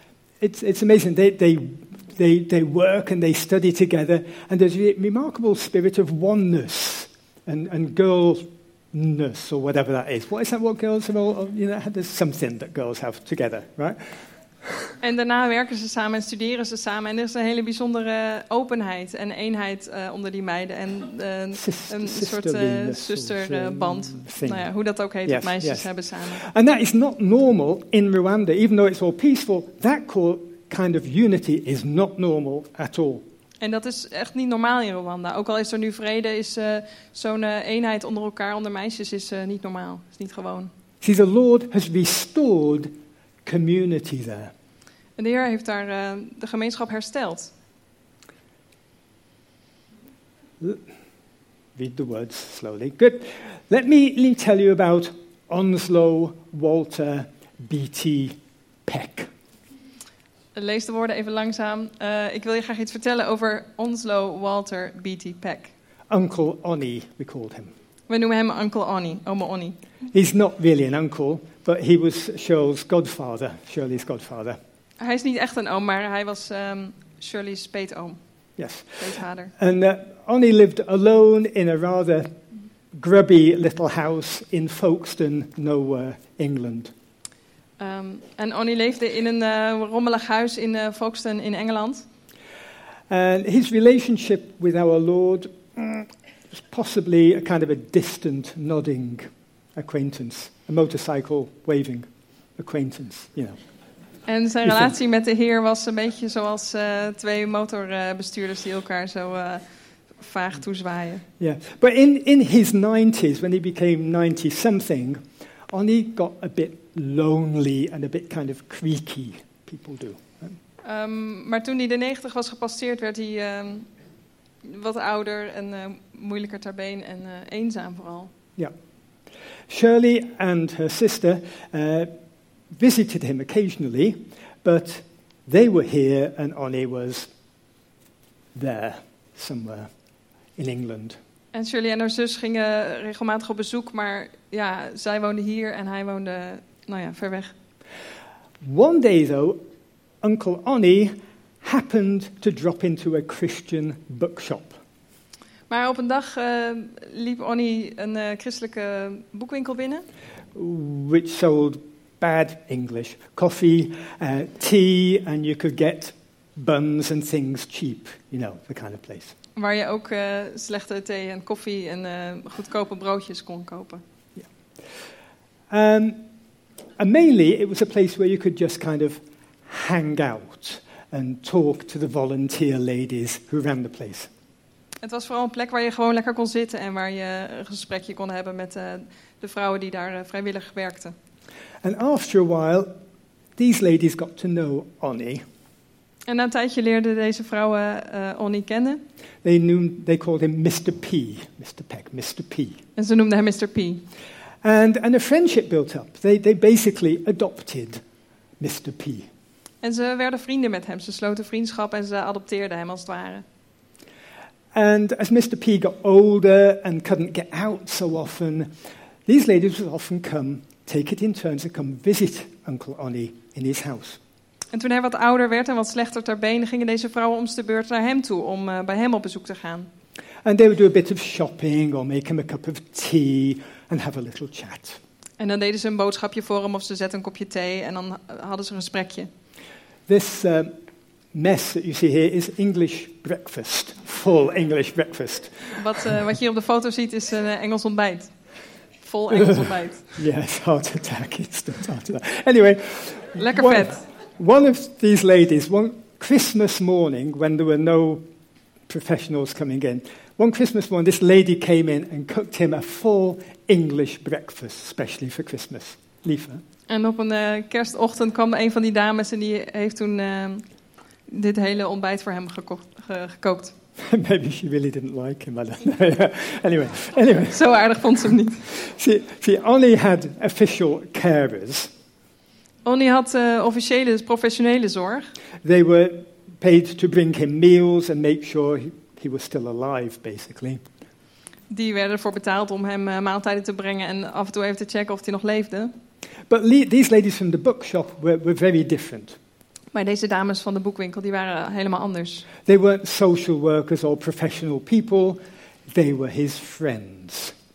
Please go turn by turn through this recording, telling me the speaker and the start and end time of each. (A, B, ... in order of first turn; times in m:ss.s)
0:00.4-0:14.0 A
0:15.0-0:26.4 B
0:21.5-0:24.7 A
0:25.2-0:33.2 A
0:33.6-0:40.7 B
0:41.0-0:42.9 A
0:43.4-0:44.5 A
0:45.2-0:47.5 B
0:51.8-0:59.3 A
1:00.6-1:05.7 B
1:06.1-1:07.7 A
1:08.1-1:09.8 B
1:10.1-1:14.6 A
1:15.0-1:18.2 B
1:18.6-1:19.0 A
1:19.0-1:19.5 B
1:19.6-1:22.4 A
1:22.9-1:26.9 A
1:27.8-1:32.0 B
1:33.1-1:43.6 A
1:44.3-1:49.6 B
1:44.6-1:44.9 A
1:50.2-1:51.2 B
1:51.4-2:00.5 A
2:00.8-2:03.9 B
2:04.6-2:08.3 B
2:09.7-2:12.1 A
2:12.8-2:17.3 A
2:18.6-2:19.9 A
2:20.6-2:21.2 A
2:21.5-2:27.5 B
2:28.6-2:29.6 A
2:30.2-2:34.8 A
2:35.7-2:40.0 B
2:40.6-2:49.4 A
2:49.6-2:54.0 B
2:55.7-2:56.2 A
2:57.0-3:04.3 A
3:05.0-3:11.1 B
3:11.8-3:12.9 A
3:13.6-3:15.4 A
3:16.3-3:19.0 B
3:19.4-3:22.8 A
3:23.0-3:24.0 B
3:24.6-3:28.0 A
3:28.6-3:29.3 A
3:29.8-3:33.4 B
3:34.7-3:38.7 A
3:39.3-3:44.2 A
3:44.7-3:49.9 B
3:50.4-3:55.0 A
3:55.4-3:59.3 B
4:00.1-4:00.7 A
4:01.3-4:05.8 A
4:05.7-4:08.3 B
4:09.0-4:10.1 B
4:09.3-4:18.2 A
4:13.4-4:14.0 B
4:18.9-4:26.6 A
4:26.9-4:30.6 B
4:31.3-4:33.8 B
4:34.0-4:37.6 A
4:37.5-4:38.6 B
4:38.7-4:41.9 A
4:42.8-4:45.3 B
4:45.6-4:50.8 A
4:51.7-4:55.9 B
4:56.5-4:59.4 A
4:59.9-5:02.5 B
5:02.6-5:05.4 A
5:05.9-5:07.5 A